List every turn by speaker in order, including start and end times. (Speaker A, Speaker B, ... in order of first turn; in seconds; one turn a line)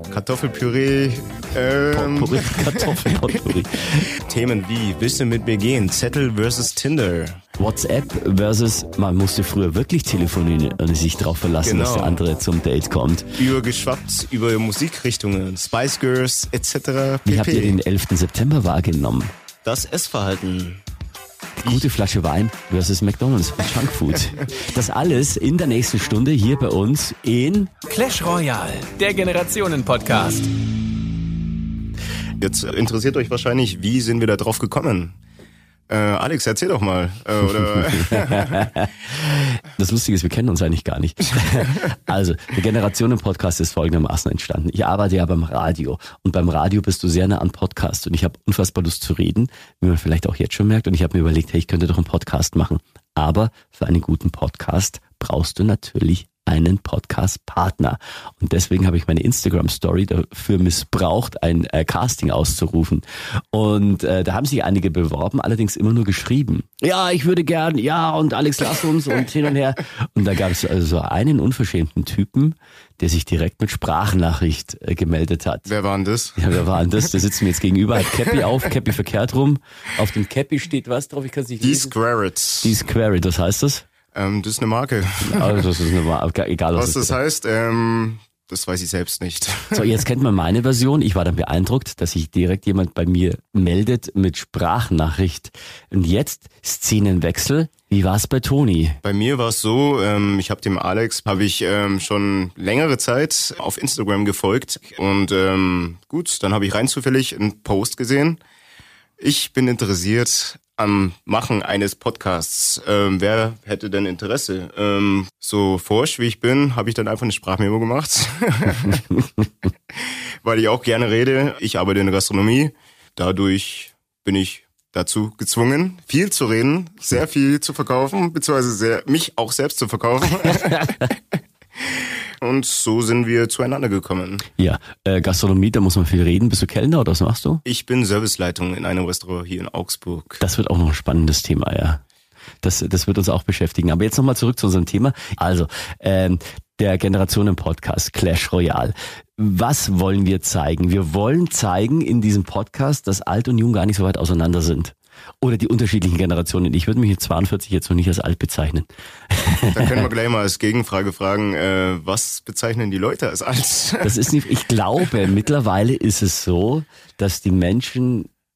Speaker A: 0.1-7.4
Speaker B: 1.9-4.1
Speaker B: 7.6-13.3
Speaker A: 11.6-12.2
Speaker A: 13.4-17.8
Speaker B: 17.2-19.3
Speaker A: 19.6-20.8
Speaker B: 21.6-27.7
Speaker C: 27.9-30.5
Speaker A: 32.4-35.1
Speaker A: 35.9-38.7
Speaker B: 37.6-75.7
Speaker A: 75.7-76.6
Speaker B: 76.4-81.9
Speaker A: 81.6-82.7
Speaker B: 82.6-83.8
Speaker A: 84.1-85.8
Speaker B: 85.2-87.2
Speaker A: 86.7-89.9
Speaker B: 89.7-99.0
Speaker A: 99.0-108.4
Speaker A: 109.2-119.0
Speaker B: 119.1-119.4
Speaker A: 119.9-131.2
Speaker A: 131.8-134.5
Speaker B: 134.6-137.6
Speaker A: 137.6-140.4
Speaker B: 140.4-142.0
Speaker B: 142.6-160.1
Speaker A: 159.7-164.2
Speaker B: 164.0-168.3